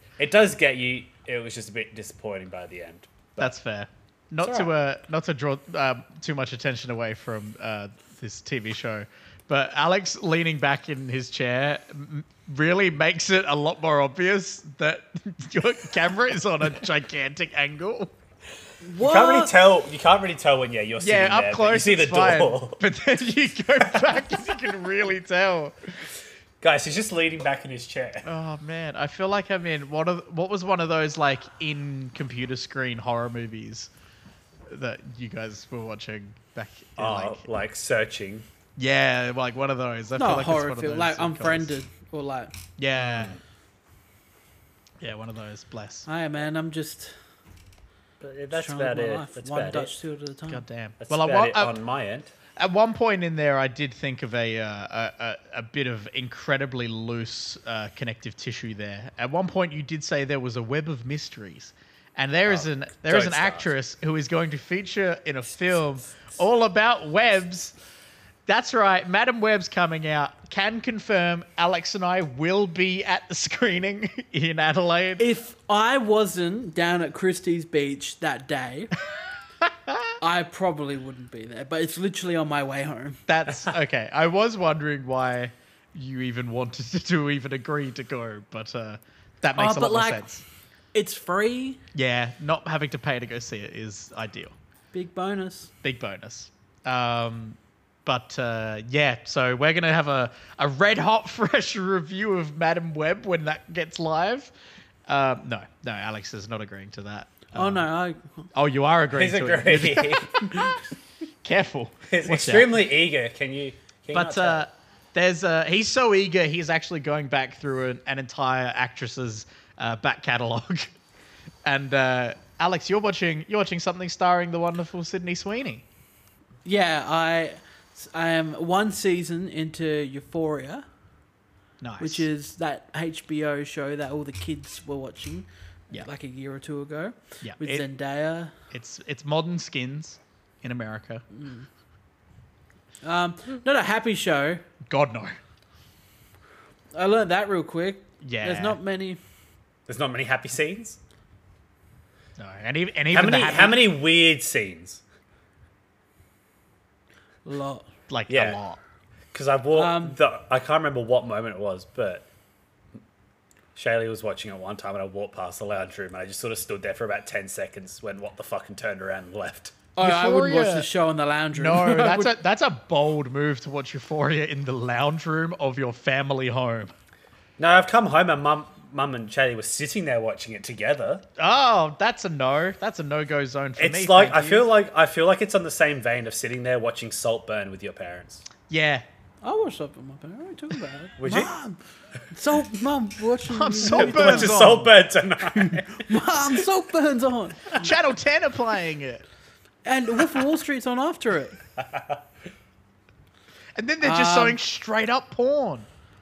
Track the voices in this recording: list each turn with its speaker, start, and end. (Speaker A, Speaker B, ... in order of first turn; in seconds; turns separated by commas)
Speaker A: 0.2-3.5, Speaker B: 3.4-18.1, Speaker A: 4.4-4.7, Speaker C: 18.8-19.5, Speaker A: 19.0-22.8, Speaker B: 21.0-25.9, Speaker A: 23.9-24.2, Speaker A: 26.6-28.3, Speaker B: 28.2-33.9, Speaker B: 34.7-37.5, Speaker A: 37.0-38.5, Speaker B: 38.8-41.7, Speaker C: 40.2-42.5, Speaker B: 42.8-43.4, Speaker A: 43.0-43.4, Speaker B: 45.0-46.1, Speaker C: 46.1-47.1, Speaker A: 48.2-50.0, Speaker C: 48.5-50.6, Speaker B: 50.5-51.8, Speaker A: 51.0-52.3, Speaker B: 52.6-67.7, Speaker A: 62.5-63.7, Speaker B: 68.5-75.2, Speaker C: 75.2-78.9, Speaker B: 79.6-80.1, Speaker C: 80.2-83.2, Speaker B: 83.3-90.4, Speaker C: 89.6-90.3, Speaker C: 90.9-91.8, Speaker B: 91.9-94.5, Speaker C: 94.9-95.7, Speaker B: 95.8-104.5, Speaker B: 105.1-107.9, Speaker C: 107.5-108.5, Speaker B: 108.5-110.8, Speaker A: 109.1-110.6, Speaker B: 111.4-112.8, Speaker A: 112.1-114.7, Speaker B: 114.1-120.9, Speaker B: 121.7-125.8, Speaker C: 126.7-130.8, Speaker B: 131.8-132.3, Speaker C: 132.0-138.5, Speaker B: 137.4-137.8, Speaker B: 138.7-141.3, Speaker C: 141.3-141.7, Speaker C: 143.0-144.7, Speaker B: 144.9-145.4, Speaker C: 146.9-149.2, Speaker B: 148.2-148.8, Speaker A: 149.9-151.0, Speaker B: 152.4-153.8, Speaker A: 153.1-155.0, Speaker C: 157.5-157.9, Speaker B: 158.1-158.8, Speaker A: 158.3-158.6, Speaker A: 159.3-162.3, Speaker C: 159.7-160.2, Speaker A: 163.8-169.8, Speaker C: 169.9-172.3, Speaker B: 170.0-170.9, Speaker B: 171.6-176.9, Speaker A: 177.6-181.3, Speaker B: 181.4-184.7, Speaker A: 183.8-188.5, Speaker B: 188.7-189.1, Speaker C: 189.4-197.9, Speaker A: 191.2-191.5, Speaker B: 193.5-194.9, Speaker A: 193.8-196.5, Speaker B: 197.7-199.2, Speaker C: 199.8-201.6, Speaker A: 201.8-202.2, Speaker B: 203.8-205.9, Speaker C: 204.0-204.6